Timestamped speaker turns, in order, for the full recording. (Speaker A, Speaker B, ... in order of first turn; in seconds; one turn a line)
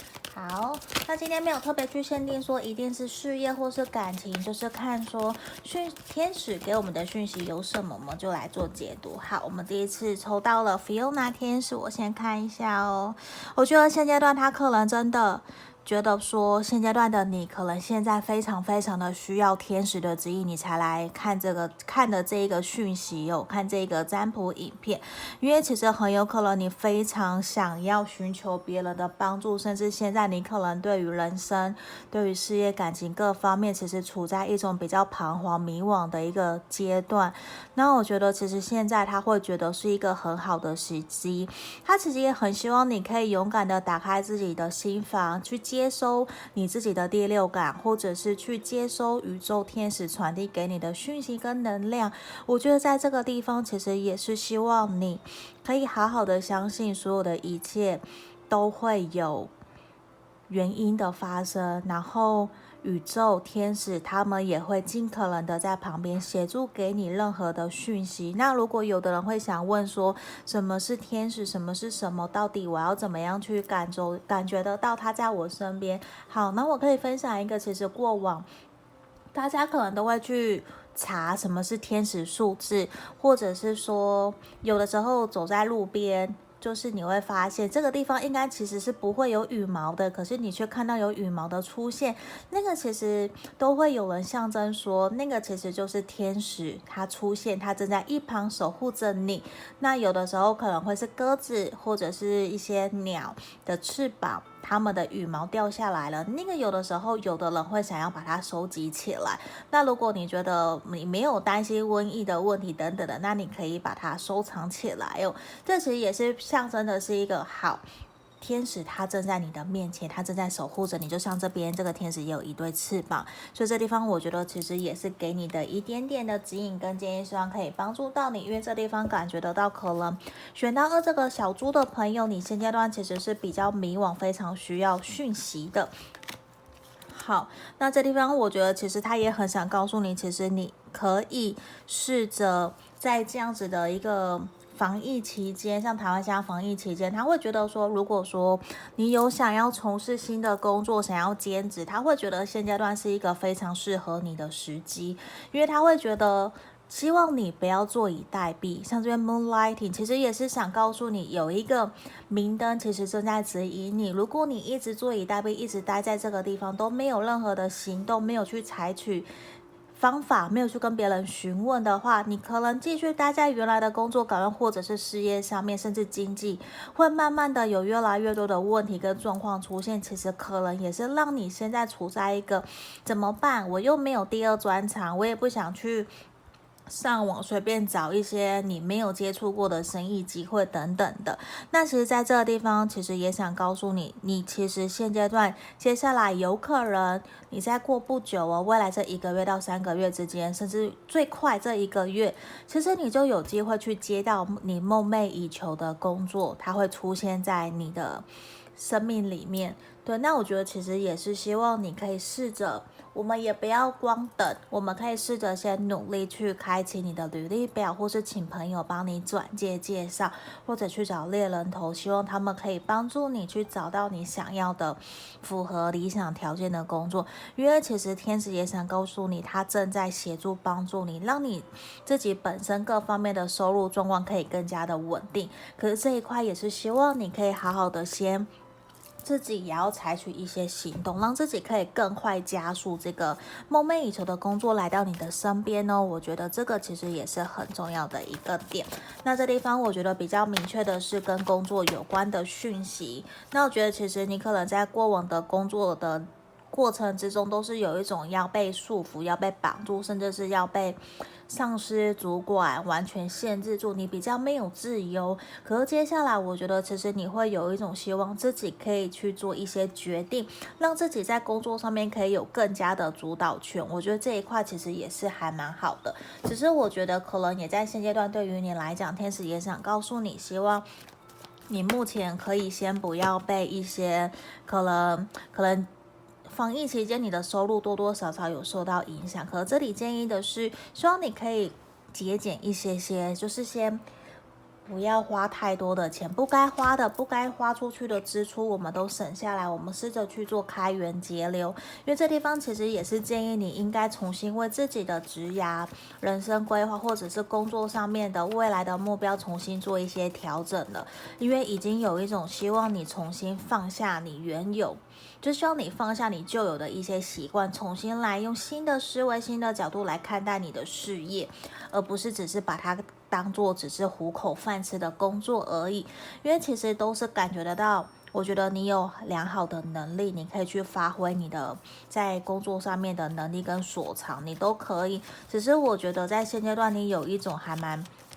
Speaker A: 0.3-59.5
Speaker A: 60.5-78.5
Speaker A: 79.3-117.8
Speaker A: 118.4-135.9
Speaker A: 137.1-169.3
Speaker A: 169.9-186.1
Speaker A: 186.9-208.2
Speaker A: 208.8-238.5
Speaker A: 239.2-280.9
Speaker A: 281.7-285.9
Speaker A: 286.4-294.0
Speaker A: 294.8-338.1